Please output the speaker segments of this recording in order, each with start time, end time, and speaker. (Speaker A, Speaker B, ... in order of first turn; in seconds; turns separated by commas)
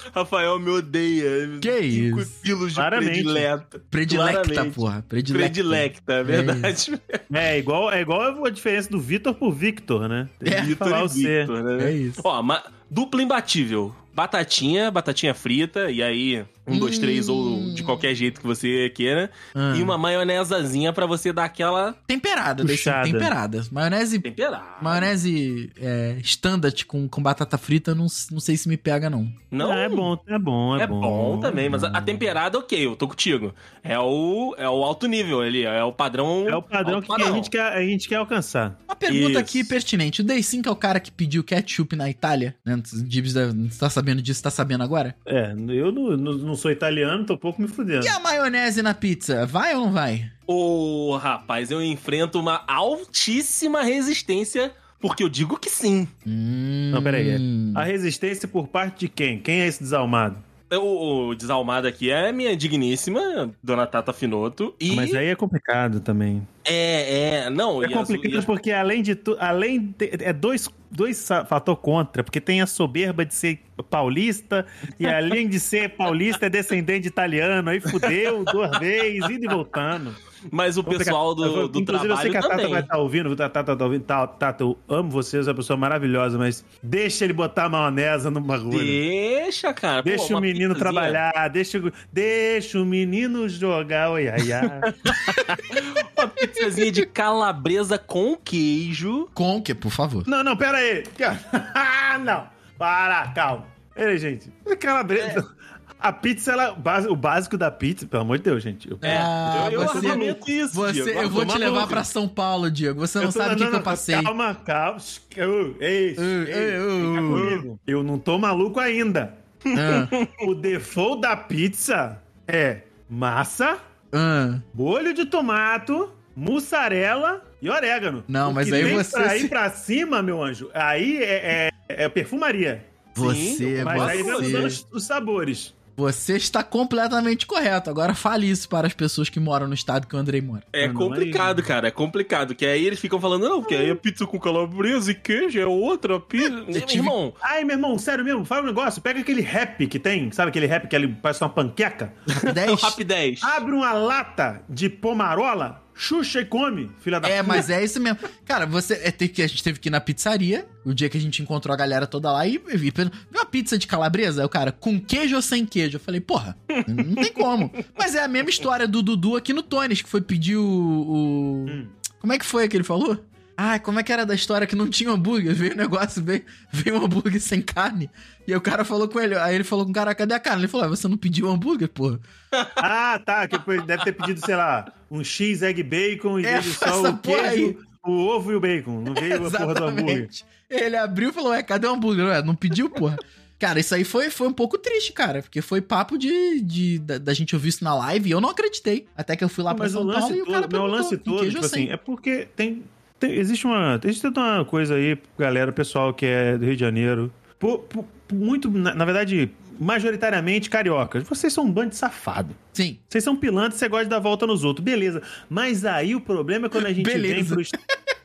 Speaker A: 0.1-7.2, Speaker B: 1.6-2.4, Speaker C: 2.8-3.5, Speaker B: 3.9-6.7, Speaker C: 7.3-11.5, Speaker B: 10.4-10.7, Speaker A: 10.5-22.0, Speaker B: 11.8-12.2, Speaker B: 16.7-18.1, Speaker B: 19.5-20.0, Speaker B: 22.1-24.3, Speaker C: 22.6-23.3, Speaker A: 24.2-25.1, Speaker B: 24.8-29.4, Speaker A: 29.5-30.1, Speaker C: 29.6-32.3, Speaker A: 30.8-37.5, Speaker C: 36.5-38.8, Speaker B: 38.9-45.1, Speaker A: 39.1-39.7, Speaker C: 45.2-48.1, Speaker B: 48.0-50.3, Speaker A: 50.5-56.1, Speaker B: 56.2-57.9, Speaker C: 56.9-60.4, Speaker A: 60.7-65.2, Speaker C: 64.9-66.5, Speaker A: 66.6-68.5, Speaker C: 67.8-80.2, Speaker A: 80.5-82.9, Speaker C: 80.8-89.0, Speaker A: 88.7-91.2, Speaker C: 90.0-94.9, Speaker A: 94.9-99.3, Speaker B: 95.2-95.8, Speaker B: 96.4-97.0, Speaker B: 99.3-100.3, Speaker C: 100.2-105.5, Speaker C: 106.0-110.4, Speaker B: 109.0-114.3, Speaker A: 109.0-112.0, Speaker C: 111.3-112.0, Speaker C: 113.2-119.4, Speaker B: 116.2-117.6, Speaker B: 119.7-120.2, Speaker A: 119.7-120.5, Speaker C: 120.4-123.8, Speaker B: 124.1-124.6, Speaker C: 124.7-133.0, Speaker B: 128.3-129.5, Speaker A: 128.7-129.0, Speaker B: 133.1-134.8, Speaker A: 133.2-134.7, Speaker C: 133.8-135.8, Speaker B: 136.0-140.7, Speaker A: 140.7-147.4, Speaker C: 140.8-141.6, Speaker C: 146.7-152.1, Speaker A: 152.3-153.6, Speaker B: 152.4-153.0, Speaker C: 153.4-157.7, Speaker B: 157.2-182.2, Speaker A: 166.7-167.4, Speaker C: 171.7-171.9, Speaker C: 182.8-190.3, Speaker B: 186.4-187.8, Speaker B: 189.2-201.9, Speaker C: 199.7-212.6, Speaker B: 212.7-213.0, Speaker C: 213.1-217.8, Speaker B: 216.8-218.1